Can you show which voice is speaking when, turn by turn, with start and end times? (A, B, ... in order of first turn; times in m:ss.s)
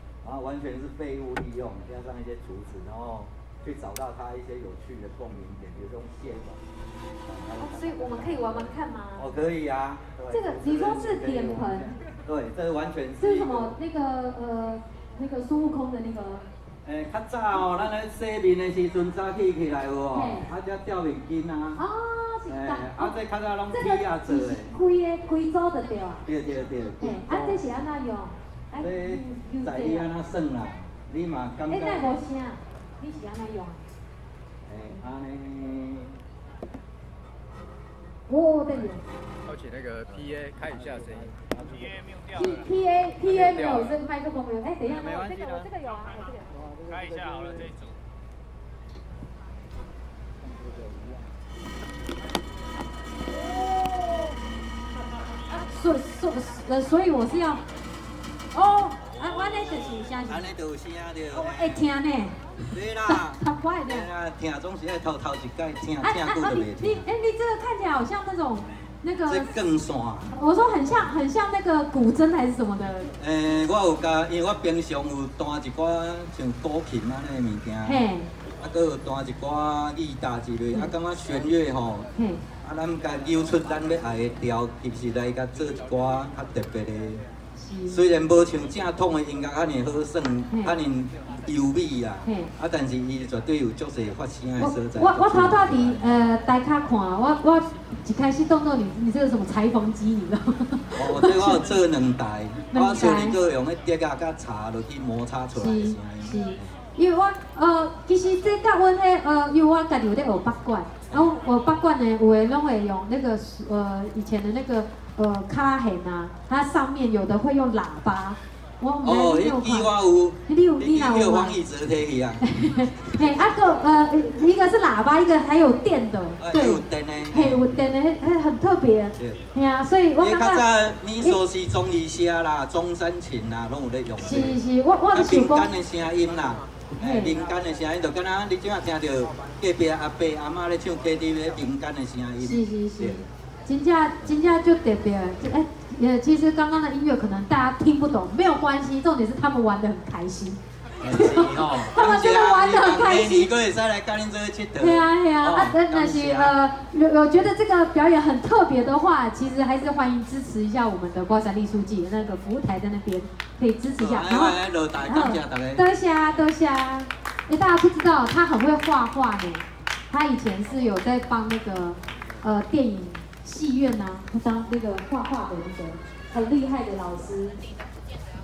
0:00.2-0:06.6 A
0:07.3-0:13.7 A
0:07.6-0:09.3 B
0:10.3-0:11.9 B
0:13.2-0:16.4 B
0:16.8-0:21.8 A
0:20.1-0:20.5 B
0:21.8-0:23.2 B
0:22.5-0:24.7 A
0:23.7-0:26.3 B
0:26.2-0:27.6 A
0:27.0-0:30.1 B
0:28.8-0:32.1 A
0:31.7-0:33.8 B
0:34.7-0:36.1 A
0:38.3-0:39.0 B
0:39.5-0:41.4 C
0:40.6-0:41.9 A
0:42.3-0:46.6 B
0:43.2-0:43.9 C
0:44.9-0:45.6 A
0:47.0-0:47.7 C
0:55.5-0:57.6 B
0:58.5-1:00.5 B
1:00.2-1:01.8 A
1:01.3-1:04.1 B
1:02.7-1:07.0 A
1:06.0-1:09.5 B
1:09.3-1:10.3 A
1:10.3-1:13.1 B
1:13.2-1:18.0 A
1:17.8-1:18.3 B
1:18.6-1:22.1 A
1:22.2-1:22.4 B
1:22.6-1:27.2 A
1:27.6-1:28.1 B
1:27.9-1:36.0 A
1:30.5-1:30.8 B
1:32.2-1:32.5 B
1:34.6-1:41.8 B
1:41.0-1:46.6 A
1:42.7-1:43.4 B
1:45.5-1:59.9 B
1:59.0-2:02.4 A
2:00.5-2:01.6 B
2:02.4-2:10.7 B
2:06.4-2:07.6 A
2:10.2-2:14.6 A
2:14.2-2:15.7 B
2:15.1-2:23.2 A
2:17.0-2:17.4 B
2:22.4-2:33.5 B
2:31.0-2:36.5 A
2:34.8-2:57.6 B
2:44.0-2:45.8 A